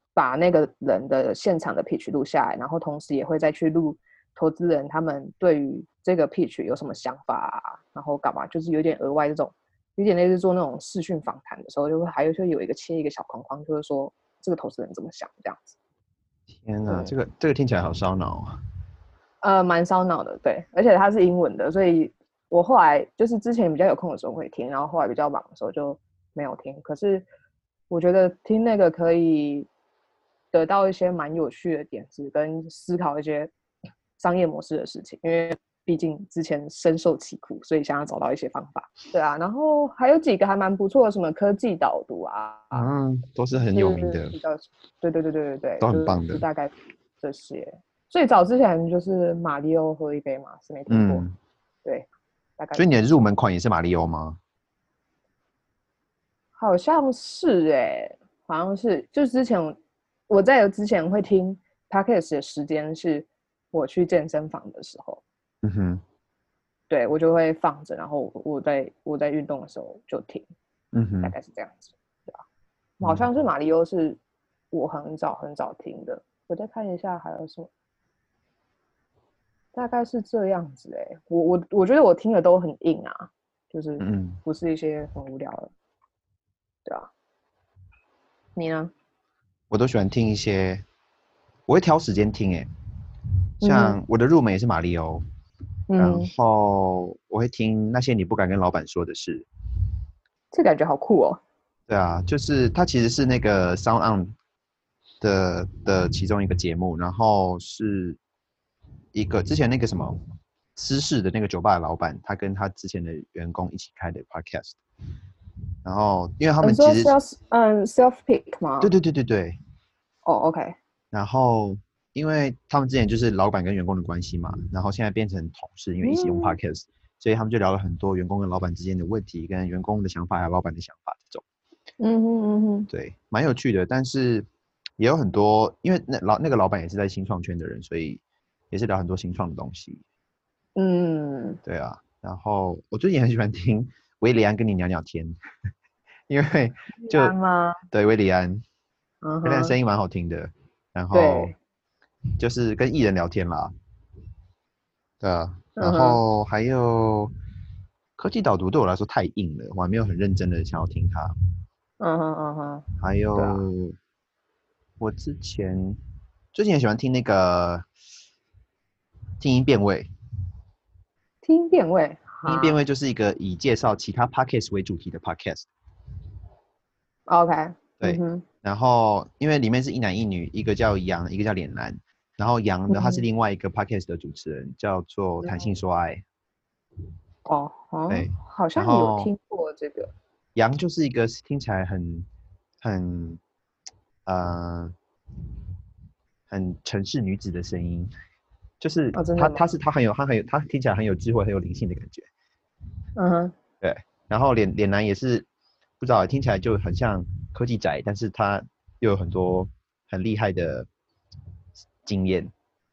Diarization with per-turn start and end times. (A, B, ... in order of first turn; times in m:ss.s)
0:00.2-0:15.8 A
0:16.5-0:18.6 B
0:16.9-0:17.1 A
0:19.4-0:27.3 A
0:27.9-0:29.7 A
0:30.5-0:33.5 A
0:34.2-0:42.9 A
0:42.7-0:44.4 B
0:43.7-0:51.2 A
0:45.8-0:46.4 B
0:50.9-0:51.4 B
0:52.6-0:52.9 A
0:52.8-0:54.4 B
0:56.6-0:59.8 A
1:00.3-1:05.2 A
1:05.6-1:06.0 B
1:06.9-1:10.4 A
1:10.9-1:11.3 B
1:11.2-1:12.4 A
1:13.0-1:13.3 B
1:13.0-1:14.2 A
1:14.7-1:17.7 A
1:19.8-1:25.7 A
1:24.0-1:24.4 B
1:28.6-1:28.9 A
1:29.7-1:30.8 B
1:31.7-1:32.7 B
1:33.6-1:34.0 A
1:33.6-1:35.2 B
1:35.9-1:36.3 A
1:36.0-1:39.5 B
1:40.5-1:41.4 A
1:41.9-1:44.3 B
1:45.2-1:48.2 B
1:49.1-1:50.2 B
1:50.8-1:54.8 B
1:55.8-1:57.2 B
1:56.6-1:58.9 A
1:58.8-1:59.6 B
2:00.2-2:00.8 A
2:01.1-2:11.4 B
2:06.0-2:06.6 A
2:12.0-2:12.9 A
2:12.9-2:14.5 B
2:15.0-2:20.0 B
2:20.8-2:21.6 A
2:21.6-2:25.3 B
2:26.3-2:27.4 B
2:27.0-2:27.8 A
2:27.9-2:28.6 B
2:29.2-2:29.8 A
2:29.4-2:31.5 B
2:31.1-2:31.6 A
2:32.4-2:33.7 B
2:35.2-2:37.3 B
2:35.8-2:36.2 A
2:38.2-2:41.3 B
2:42.0-2:43.6 A
2:43.0-2:44.0 B
2:45.0-2:46.0 B
2:46.5-2:47.9 B
2:49.4-2:50.1 B
2:51.4-2:52.8 A
2:52.5-2:55.7 B
2:57.3-2:58.4 A
2:58.0-3:06.2 B
3:02.9-3:03.2 A
3:05.4-3:05.7 A
3:07.5-3:10.1 A
3:08.1-3:09.3 B
3:10.6-3:12.3 B
3:12.8-3:13.4 B
3:14.3-3:15.0 B
3:16.5-3:18.1 B
3:18.8-3:22.3 B
3:19.2-3:19.7 A
3:23.2-3:23.6 A
3:23.8-3:25.5 B
3:26.0-3:30.9 B
3:32.0-3:32.5 B